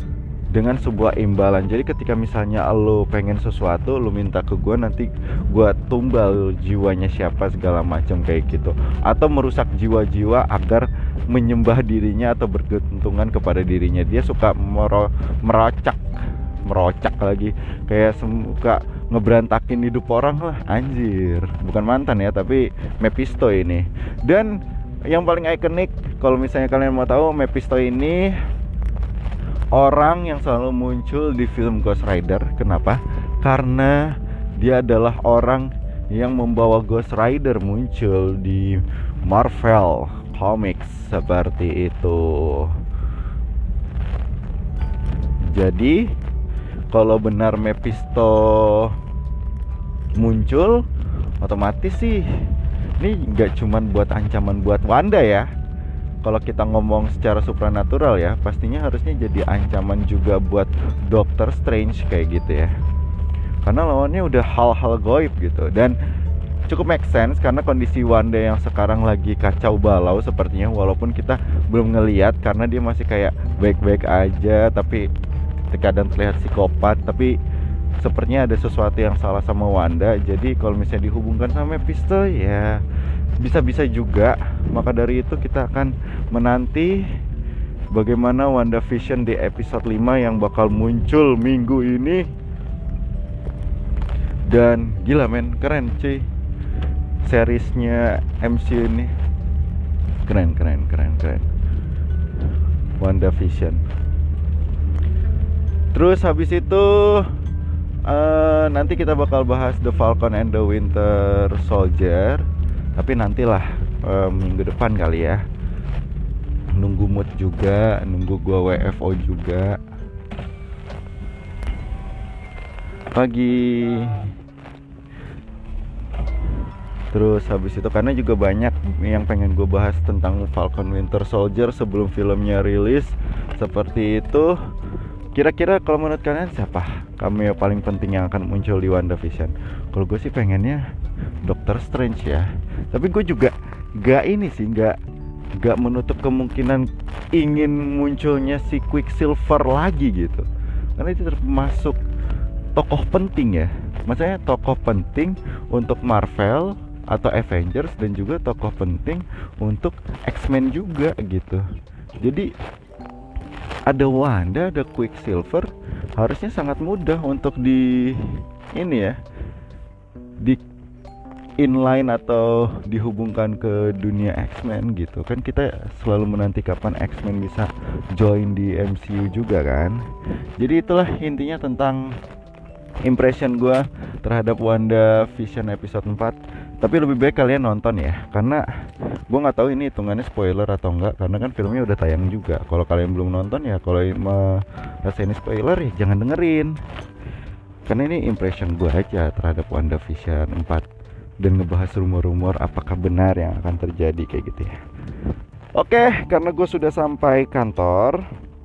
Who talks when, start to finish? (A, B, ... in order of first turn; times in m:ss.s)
0:00.5-0:28.4 A
0:29.7-0:42.8 A
0:45.5-0:46.1 A
0:46.9-0:49.0 A
0:50.2-0:50.8 A
0:51.4-0:52.3 A
0:53.0-0:55.5 A
0:56.2-1:02.7 A
1:03.6-1:06.0 A
1:06.7-1:15.1 A
1:15.7-1:17.4 A
1:18.0-1:22.8 A
1:23.4-1:27.1 A
1:27.9-1:32.3 A
1:34.5-1:36.2 A
1:37.2-1:39.1 A
1:40.2-1:41.5 A
1:43.0-1:43.8 A
1:45.9-1:47.3 A
1:48.0-1:55.4 A
1:56.7-1:59.8 A
2:03.1-2:04.3 A
2:07.1-2:14.6 A
2:15.3-2:20.8 A
2:21.4-2:25.0 A
2:25.6-2:32.0 A
2:32.7-2:41.6 A
2:42.2-2:42.5 A
2:43.9-2:49.2 A
2:51.6-3:00.0 A
3:00.6-3:02.2 A
3:03.0-3:08.6 A
3:09.3-3:16.8 A
3:17.9-3:20.8 A
3:21.4-3:24.8 A
3:25.8-3:28.2 A